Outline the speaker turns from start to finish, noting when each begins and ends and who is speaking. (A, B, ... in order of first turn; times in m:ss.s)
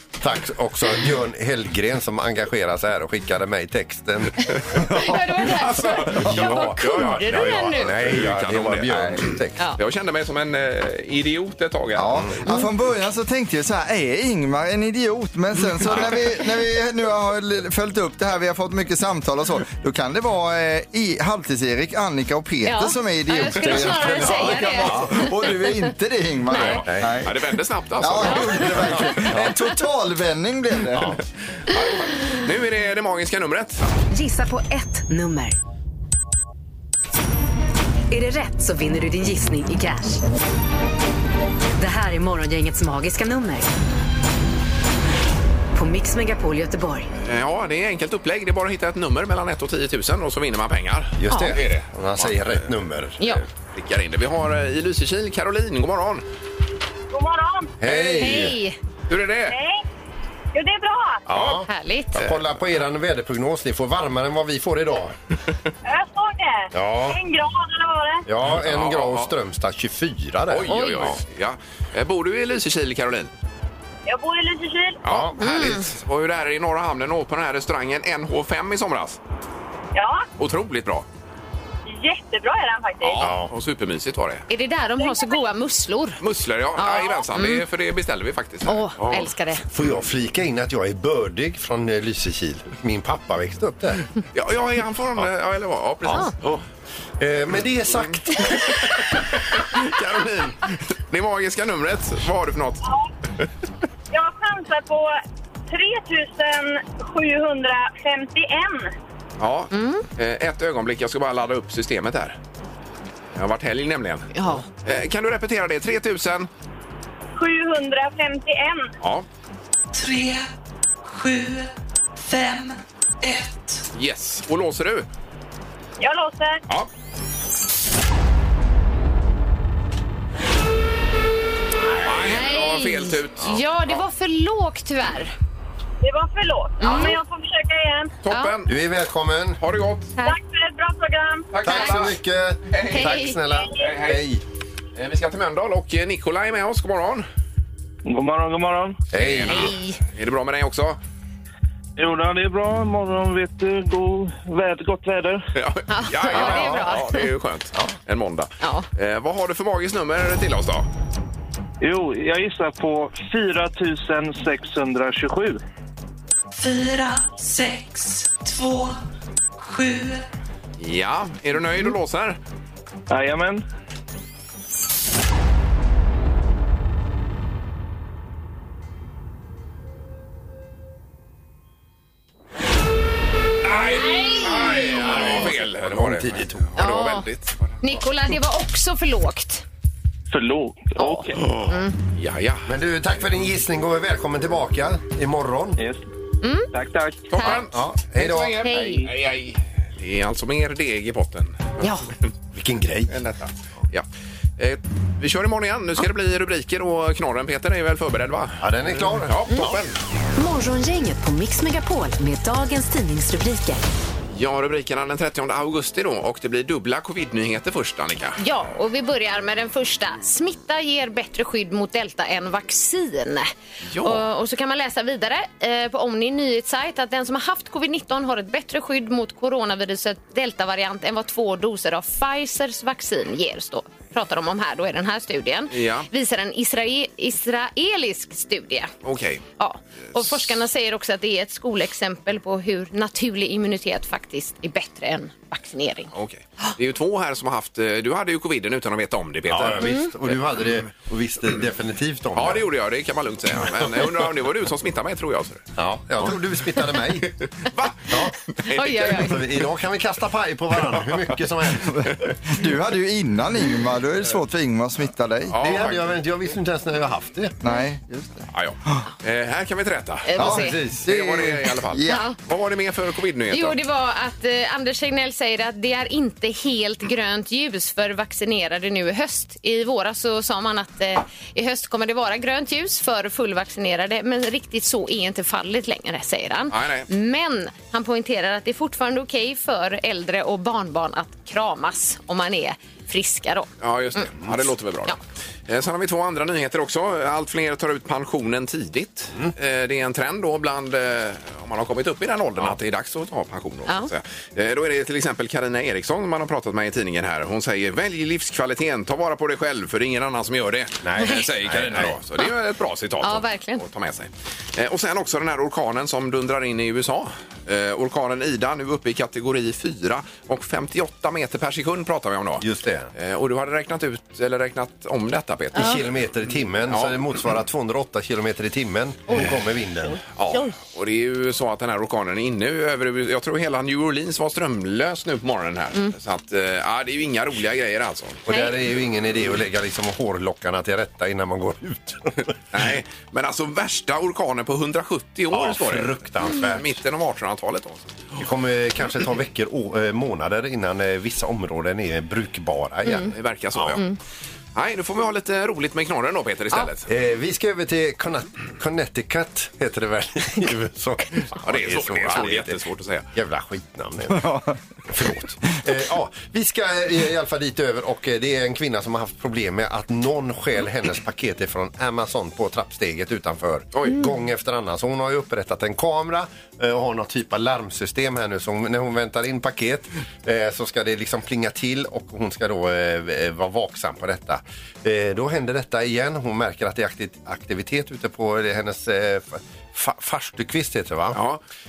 0:00.2-0:04.8 A
0:04.7-0:05.4 B
0:04.9-0:07.9 C
0:05.4-0:12.4 D
0:06.1-0:09.7 A
0:08.9-0:09.2 B
0:11.9-0:27.4 B
0:22.6-0:25.7 C
0:24.0-0:25.1 A
0:26.5-0:26.8 C
0:26.5-0:29.1 D
0:26.8-0:27.1 A
0:28.0-0:31.2 B
0:28.7-0:29.5 A
0:30.9-0:31.2 A
0:31.7-0:34.0 D
0:34.1-0:35.6 E
0:38.1-0:40.2 E
0:41.8-0:43.7 E
0:45.7-0:47.1 E
0:47.2-0:52.7 D
0:51.2-0:53.4 A
0:51.3-0:51.6 C
0:53.7-0:56.2 D
0:57.1-0:58.2 F
0:57.8-0:58.6 A
0:58.1-0:58.8 C
0:59.1-0:59.6 D
0:59.5-0:59.8 F
1:00.5-1:01.2 F
1:01.3-1:05.2 A
1:01.3-1:01.6 D
1:01.7-1:02.2 C
1:05.8-1:08.2 F
1:06.7-1:07.2 A
1:08.3-1:11.2 A
1:08.5-1:09.3 D
1:10.5-1:13.3 D
1:10.7-1:11.2 C
1:14.0-1:15.0 F
1:15.0-1:19.2 D
1:15.1-1:15.7 A
1:15.4-1:15.9 C
1:19.9-1:20.2 F
1:20.4-1:21.0 D
1:21.8-1:23.3 F
1:23.0-1:24.4 D
1:23.2-1:23.5 A
1:24.5-1:26.2 C
1:25.0-1:25.4 F
1:26.2-1:29.3 D
1:26.8-1:27.6 C
1:28.6-1:29.6 C
1:29.7-1:34.0 A
1:34.3-1:36.6 D
1:36.0-1:36.3 A
1:37.2-1:40.5 A
1:38.8-1:42.8 D
1:44.1-1:45.1 F
1:45.7-1:48.9 F
1:49.4-1:52.4 D
1:49.7-1:50.0 C
1:53.3-1:56.5 D
1:54.3-1:54.6 C
1:57.4-1:58.9 F
1:59.9-2:00.5 G
2:01.0-2:01.7 G
2:02.2-2:03.8 G
2:03.9-2:05.0 D
2:06.0-2:06.6 F
2:12.0-2:13.6 D
2:12.2-2:15.3 C
2:16.0-2:18.1 F
2:16.8-2:17.2 C
2:16.8-2:17.1 D
2:18.2-2:18.7 D
2:18.7-2:19.6 A
2:19.6-2:20.1 D
2:20.2-2:21.5 F
2:21.5-2:22.2 D
2:21.6-2:24.4 A
2:21.7-2:22.0 C
2:22.7-2:24.2 D
2:22.9-2:23.4 C
2:25.0-2:27.3 D
2:28.0-2:29.0 H
2:29.1-2:29.7 A
2:29.1-2:31.0 D
2:29.5-2:30.0 C
2:32.0-2:35.4 H
2:35.5-2:40.9 D
2:35.9-2:37.3 C
2:36.3-2:36.9 A
2:38.6-2:38.8 C
2:41.8-2:45.6 H
2:46.5-2:49.0 G
2:49.6-2:50.2 G
2:50.8-2:52.4 D
2:53.1-2:53.6 H
3:03.6-3:07.8 D
3:04.0-3:05.4 C
3:04.9-3:06.7 A
3:06.8-3:07.3 C
3:07.8-3:09.6 C
3:10.3-3:11.5 H
3:11.0-3:11.9 C
3:11.4-3:12.7 D
3:12.7-3:15.8 A
3:16.4-3:16.7 C
3:16.7-3:17.4 H
3:17.3-3:22.1 D
3:17.3-3:17.6 C
3:17.6-3:18.7 A
3:18.6-3:19.0 C
3:22.5-3:23.2 A
3:23.1-3:24.0 D
3:24.6-3:30.0 D
3:28.6-3:29.8 A
3:30.4-3:33.8 E
3:34.3-3:38.4 D
3:38.4-3:43.5 C
3:43.9-3:44.2 D
3:44.0-3:58.9 C
3:55.7-3:56.1 D
3:59.0-3:59.4 D
3:59.6-4:06.1 C
4:00.2-4:00.4 D
4:06.1-4:10.4 D
4:09.5-4:12.6 A
4:09.8-4:10.1 C
4:12.3-4:15.6 D
4:15.8-4:17.4 A
4:17.6-4:19.4 D
4:18.1-4:18.3 A
4:18.7-4:19.4 C
4:18.9-4:22.2 A
4:21.9-4:25.6 B
4:25.5-4:26.1 D
4:25.6-4:27.6 A
4:27.6-4:29.0 B
4:28.5-4:33.8 D
4:30.3-4:30.8 C
4:30.4-4:32.2 B
4:30.4-4:31.1 A
4:32.1-4:32.4 C
4:33.5-4:54.3 C
4:46.7-4:47.1 D
4:53.8-5:26.1 D
5:11.0-5:12.2 A
5:13.2-5:13.8 C
5:22.6-5:23.1 A
5:25.7-5:30.2 A
5:26.9-5:27.2 D
5:30.4-5:38.4 D
5:38.4-5:42.5 A
5:38.5-5:38.8 C
5:42.7-5:48.1 D
5:45.5-5:47.0 A
5:48.4-5:54.0 A
5:53.2-5:54.0 D
5:54.7-5:57.1 D
5:57.1-6:02.8 A
6:01.6-6:03.3 D
6:03.3-6:31.4 A
6:04.4-6:04.7 B
6:13.9-6:14.2 D
6:31.3-6:31.6 D